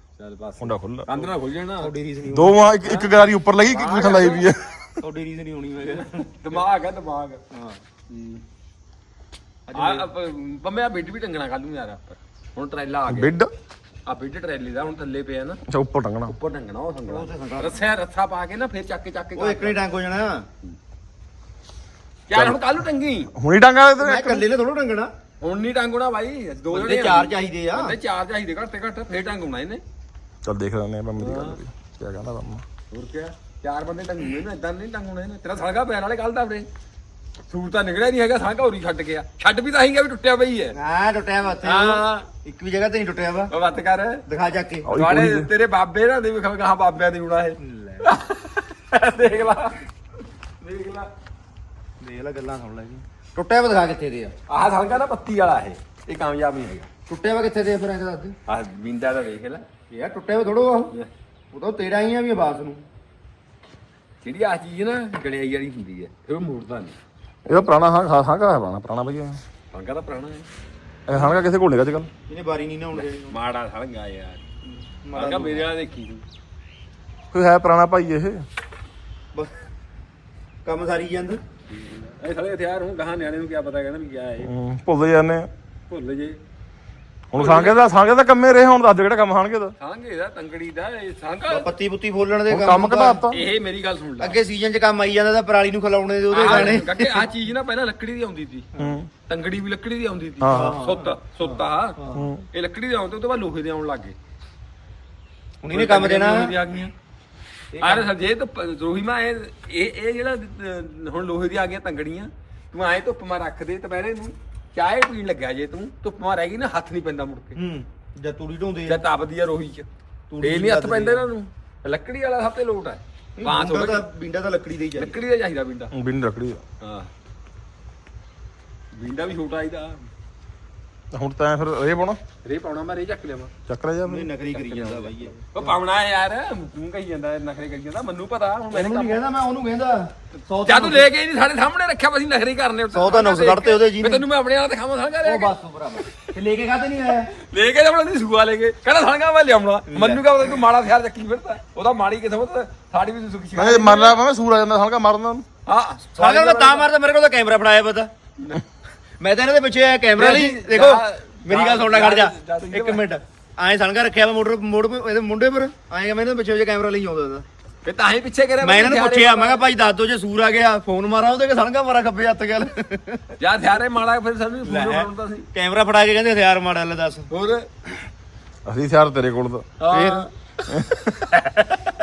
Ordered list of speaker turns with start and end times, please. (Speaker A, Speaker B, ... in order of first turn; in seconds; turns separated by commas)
Speaker A: 0.2-1.9, Speaker B: 0.6-1.2, Speaker C: 1.8-2.6, Speaker B: 2.3-4.9, Speaker A: 3.7-4.5, Speaker C: 5.0-6.5, Speaker A: 6.0-7.4, Speaker C: 7.5-7.8, Speaker A: 8.1-8.4, Speaker C: 9.7-10.1, Speaker A: 9.7-13.3, Speaker B: 13.1-13.5, Speaker A: 14.1-15.6, Speaker B: 15.7-16.3, Speaker A: 16.3-19.8, Speaker C: 17.1-17.8, Speaker C: 19.4-20.4, Speaker A: 22.3-23.3, Speaker B: 22.3-22.6, Speaker B: 23.3-24.4, Speaker C: 24.0-25.1, Speaker A: 25.4-29.8, Speaker C: 26.7-27.9, Speaker B: 30.4-32.6, Speaker A: 31.2-31.6, Speaker A: 32.9-36.7, Speaker A: 37.5-40.8, Speaker C: 40.7-43.5, Speaker A: 41.6-42.3, Speaker A: 43.5-44.2, Speaker C: 44.3-44.9, Speaker B: 44.8-45.5, Speaker A: 44.9-49.8, Speaker C: 47.6-48.0, Speaker A: 50.6-51.1, Speaker C: 52.0-54.3, Speaker A: 54.5-56.9, Speaker C: 57.1-58.4, Speaker A: 58.5-59.6, Speaker C: 59.9-60.9, Speaker C: 61.5-62.8, Speaker A: 64.2-67.0, Speaker B: 67.5-69.4, Speaker A: 69.7-70.5, Speaker B: 71.1-72.1, Speaker C: 72.3-73.3, Speaker A: 73.0-74.4, Speaker C: 74.7-75.7, Speaker A: 75.1-76.2, Speaker B: 77.3-78.4, Speaker C: 80.6-81.4, Speaker A: 81.8-84.5, Speaker B: 84.4-85.5, Speaker A: 85.9-86.4, Speaker B: 87.3-89.7, Speaker A: 87.3-87.8, Speaker A: 89.8-91.7, Speaker C: 91.5-93.2, Speaker B: 92.5-93.4, Speaker A: 93.3-94.4, Speaker C: 94.2-97.3, Speaker A: 96.3-98.7, Speaker B: 98.8-99.1, Speaker A: 99.2-102.0, Speaker B: 100.4-100.7, Speaker C: 100.5-102.2, Speaker B: 102.1-102.4, Speaker A: 102.5-104.2, Speaker C: 105.6-106.8, Speaker A: 105.7-106.9, Speaker C: 107.7-108.1, Speaker A: 107.8-117.6, Speaker C: 117.5-119.0, Speaker A: 118.9-119.9, Speaker C: 120.3-121.3, Speaker A: 120.4-124.1, Speaker C: 123.4-125.2, Speaker A: 125.0-125.9, Speaker B: 125.9-126.6, Speaker A: 126.8-127.1, Speaker A: 128.9-130.1, Speaker B: 131.1-132.2, Speaker A: 132.4-133.5, Speaker B: 133.7-134.3, Speaker C: 134.0-135.5, Speaker A: 134.5-139.2, Speaker C: 138.7-141.1, Speaker A: 140.7-145.5, Speaker C: 142.9-144.2, Speaker C: 145.2-147.3, Speaker A: 147.3-154.2, Speaker C: 149.9-150.3, Speaker B: 153.5-155.4, Speaker A: 155.7-156.9, Speaker C: 156.1-158.1, Speaker C: 159.2-167.4, Speaker A: 160.2-163.0, Speaker A: 167.8-169.6, Speaker C: 168.6-173.2, Speaker A: 173.4-175.5, Speaker C: 174.6-177.3, Speaker A: 177.3-177.7, Speaker B: 178.6-179.7, Speaker A: 179.8-180.3, Speaker C: 179.9-180.3, Speaker C: 181.2-181.8